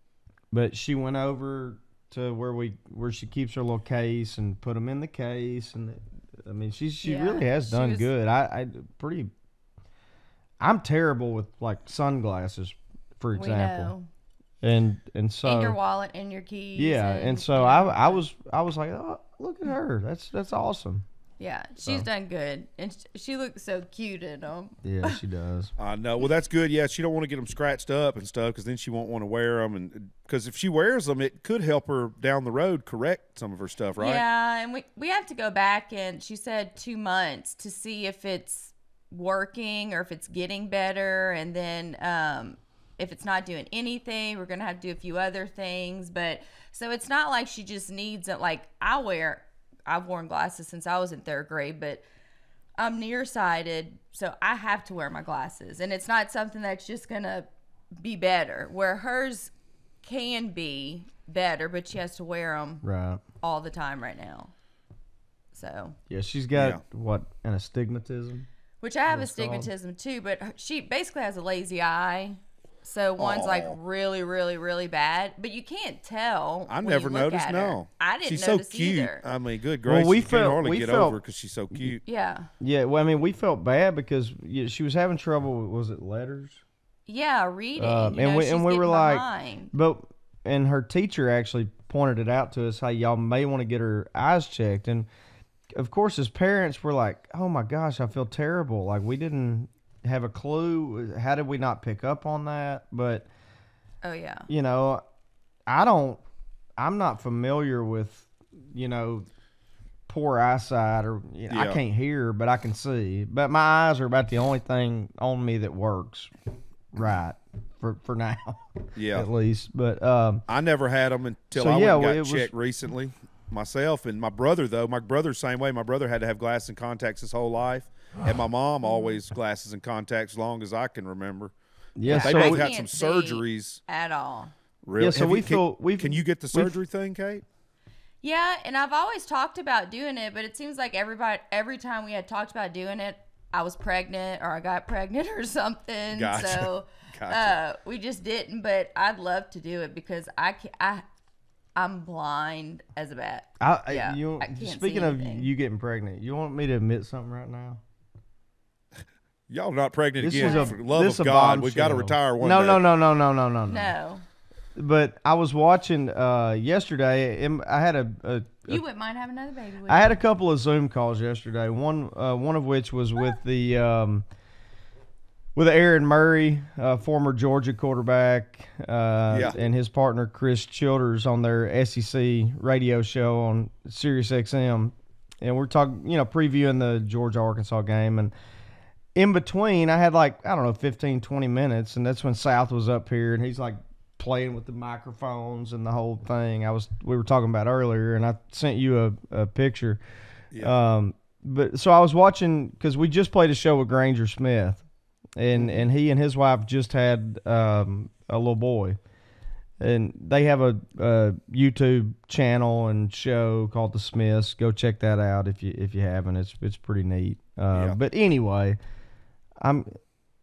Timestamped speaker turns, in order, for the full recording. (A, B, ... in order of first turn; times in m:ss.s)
0:00.5-0:09.3 A
0:07.0-0:08.1 B
0:10.6-0:13.9 A
0:13.3-0:14.0 B
0:14.6-0:15.8 A
0:15.4-0:18.2 B
0:16.8-0:21.0 A
0:21.4-0:25.2 B
0:24.8-0:25.7 A
0:25.8-0:34.2 C
0:34.0-0:52.0 B
0:52.8-0:59.5 B
1:00.0-1:02.8 B
1:02.8-1:03.2 A
1:03.4-1:04.5 B
1:05.5-1:06.0 B
1:06.1-1:08.5 A
1:06.6-1:06.8 C
1:08.8-1:19.3 B
1:09.1-1:09.7 A
1:13.2-1:13.8 C
1:16.7-1:22.0 C
1:19.9-1:21.2 A
1:22.0-1:22.5 B
1:22.6-1:26.6 A
1:27.1-1:29.7 B
1:27.8-1:35.1 A
1:35.8-1:43.3 A
1:44.0-1:44.4 B
1:44.5-1:45.0 A
1:45.7-1:46.2 A
1:46.8-1:49.3 A
1:50.1-1:56.3 A
1:51.5-1:51.8 C
1:56.9-2:00.4 A
1:59.0-1:59.3 C
2:00.5-2:11.5 C
2:01.5-2:02.5 A
2:08.9-2:09.2 B
2:12.0-2:12.6 A
2:12.0-2:14.5 B
2:12.1-2:13.8 C
2:14.8-2:17.4 C
2:15.0-2:16.8 A
2:18.2-2:31.0 B
2:26.1-2:27.6 C
2:31.8-2:35.5 B
2:33.6-2:37.8 A
2:39.5-2:42.8 C
2:40.2-2:43.9 A
2:40.3-2:40.8 B
2:43.7-2:44.2 B
2:44.8-2:48.8 A
2:48.7-2:50.2 B
2:49.9-2:54.2 A
2:55.5-3:08.3 A
2:59.3-2:59.6 C
3:09.1-3:20.0 A
3:20.6-3:24.8 A
3:25.4-3:29.0 A
3:25.5-3:25.9 C
3:29.8-3:38.8 A
3:39.6-3:39.9 A